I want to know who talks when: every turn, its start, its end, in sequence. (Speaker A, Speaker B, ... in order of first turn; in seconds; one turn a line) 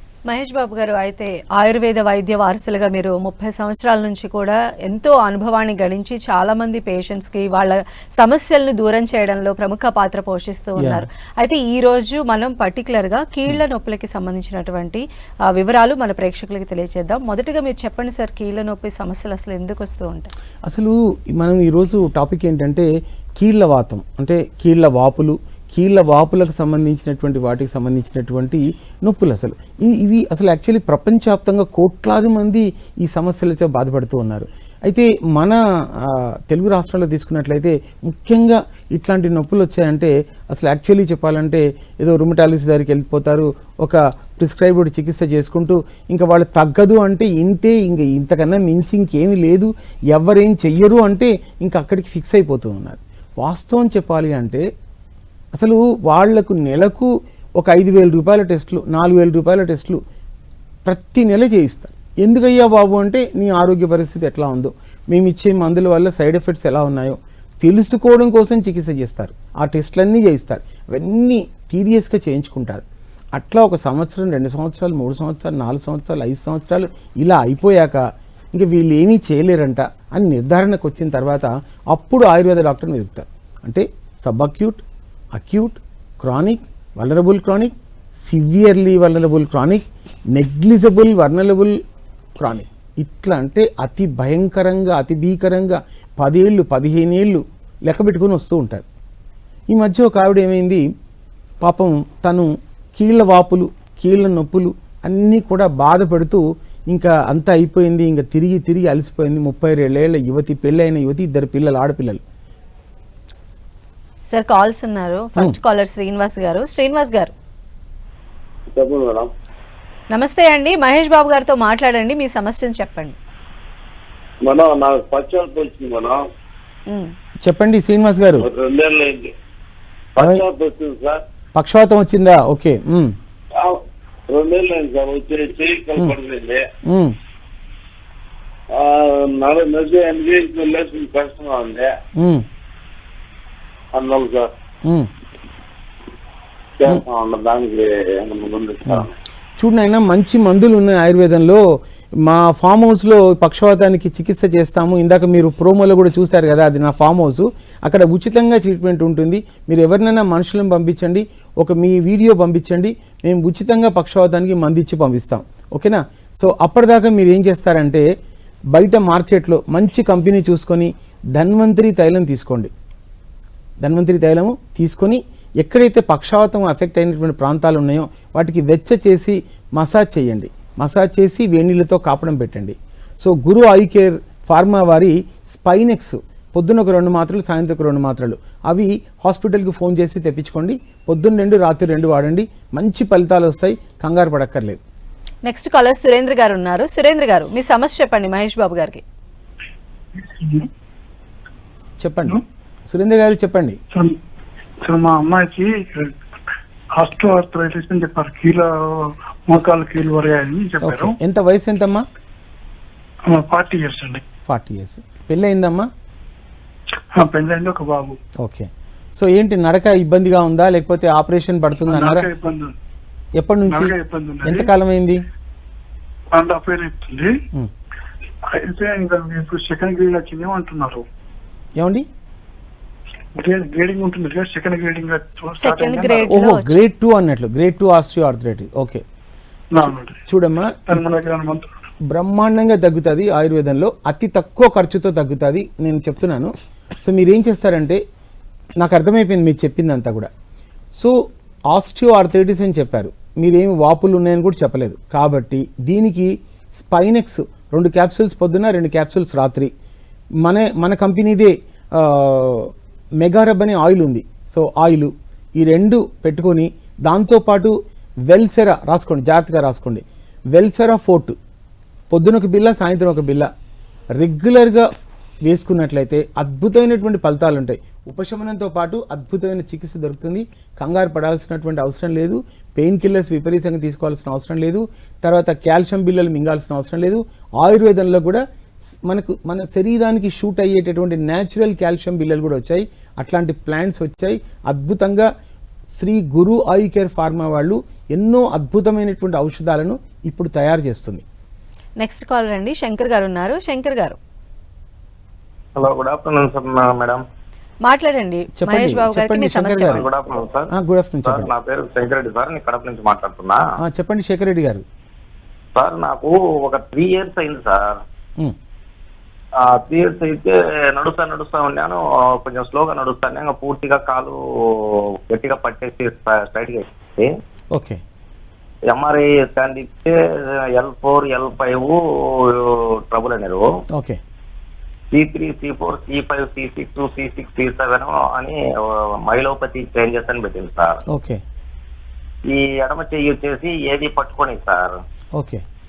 Speaker A: 0.3-20.3
Speaker B: 10.8-11.1
Speaker B: 20.7-22.9
Speaker B: 23.4-54.6
Speaker B: 55.5-60.0
Speaker B: 60.9-91.8
Speaker B: 92.4-98.8
Speaker B: 99.7-100.8
Speaker B: 101.6-112.2
Speaker A: 114.3-117.3
Speaker C: 118.7-119.3
Speaker A: 120.1-123.2
Speaker C: 124.5-126.2
Speaker B: 127.4-128.5
Speaker C: 128.4-129.3
Speaker C: 130.2-131.2
Speaker B: 131.6-133.1
Speaker C: 134.3-136.6
Speaker B: 136.9-137.2
Speaker C: 138.7-141.9
Speaker B: 142.2-142.4
Speaker C: 143.9-144.5
Speaker C: 146.8-149.1
Speaker B: 149.6-151.6
Speaker B: 152.2-168.0
Speaker B: 168.7-172.7
Speaker B: 173.8-194.8
Speaker A: 195.5-199.0
Speaker D: 200.2-200.7
Speaker B: 202.0-203.8
Speaker D: 203.9-204.2
Speaker D: 204.8-206.2
Speaker D: 207.0-211.2
Speaker B: 210.8-212.0
Speaker D: 213.3-214.2
Speaker B: 214.4-215.9
Speaker D: 217.2-218.2
Speaker B: 218.4-222.3
Speaker D: 221.8-222.7
Speaker B: 223.4-225.2
Speaker D: 223.7-224.7
Speaker D: 226.3-227.3
Speaker D: 228.5-231.0
Speaker B: 231.8-232.1
Speaker D: 233.4-236.3
Speaker A: 235.5-236.8
Speaker B: 236.3-239.0
Speaker D: 239.7-240.2
Speaker B: 240.3-241.0
Speaker D: 240.9-241.7
Speaker B: 242.1-248.0
Speaker B: 248.8-250.3
Speaker B: 251.7-259.7
Speaker B: 260.4-267.8
Speaker B: 268.3-271.4
Speaker B: 272.1-273.5
Speaker B: 274.2-274.9
Speaker B: 275.5-288.4
Speaker B: 289.0-295.3
Speaker B: 295.9-301.2
Speaker A: 302.0-304.2
Speaker E: 305.8-307.2
Speaker A: 307.8-310.0
Speaker B: 308.6-310.1
Speaker E: 309.9-310.7
Speaker B: 310.7-311.5
Speaker E: 311.2-313.6
Speaker B: 313.8-314.8
Speaker E: 315.8-318.0
Speaker E: 319.6-327.3
Speaker B: 327.7-328.0
Speaker E: 328.9-333.6
Speaker B: 333.9-334.2
Speaker E: 335.1-341.0
Speaker B: 341.1-341.4
Speaker E: 342.5-345.0
Speaker B: 345.4-345.6